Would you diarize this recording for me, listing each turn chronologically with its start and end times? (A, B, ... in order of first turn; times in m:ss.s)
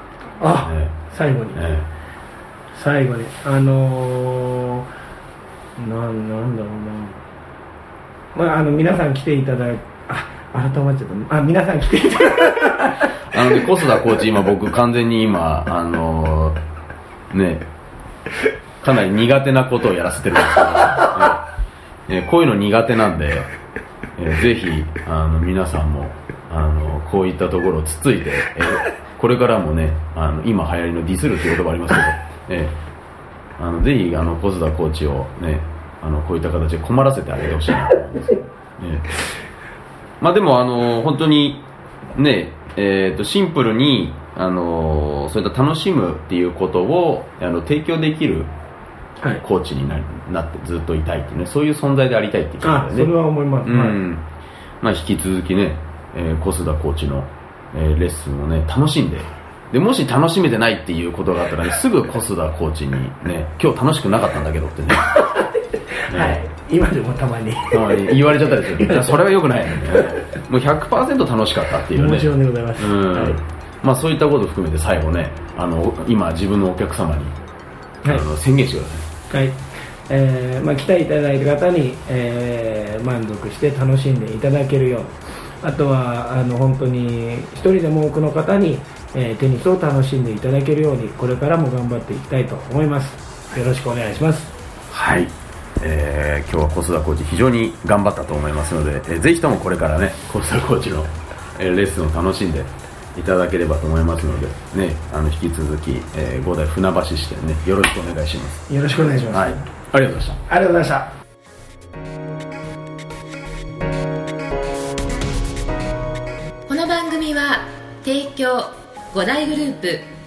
0:00.4-0:01.7 A
0:00.6-0:00.9 B
0:01.5-0:01.9 B
0:02.7-0:04.9 A
0:05.8-0:07.2 A
0:08.3-0:13.6 A
0:13.3-0:16.6 B
0:17.3-0:17.6 B
0:18.8-0:21.4 B
0:22.1-0:23.5 B
0:24.2-0:32.7 B
0:33.6-0:39.1 B
0:40.2-0:41.6 B
0:42.1-0:48.5 B
0:49.4-0:53.1 B
0:52.6-0:54.0 A
0:53.6-0:54.2 B
0:54.8-1:05.2 B
1:05.0-1:10.2 A
1:06.1-1:06.4 B
1:07.7-1:17.3 B
1:11.9-1:13.4 A
1:18.1-1:19.1 B
1:19.3-1:34.5 A
1:34.9-1:48.6 B
1:48.7-1:49.7 A
1:49.3-1:50.4 B
1:50.5-1:51.1 A
1:56.7-2:00.1 C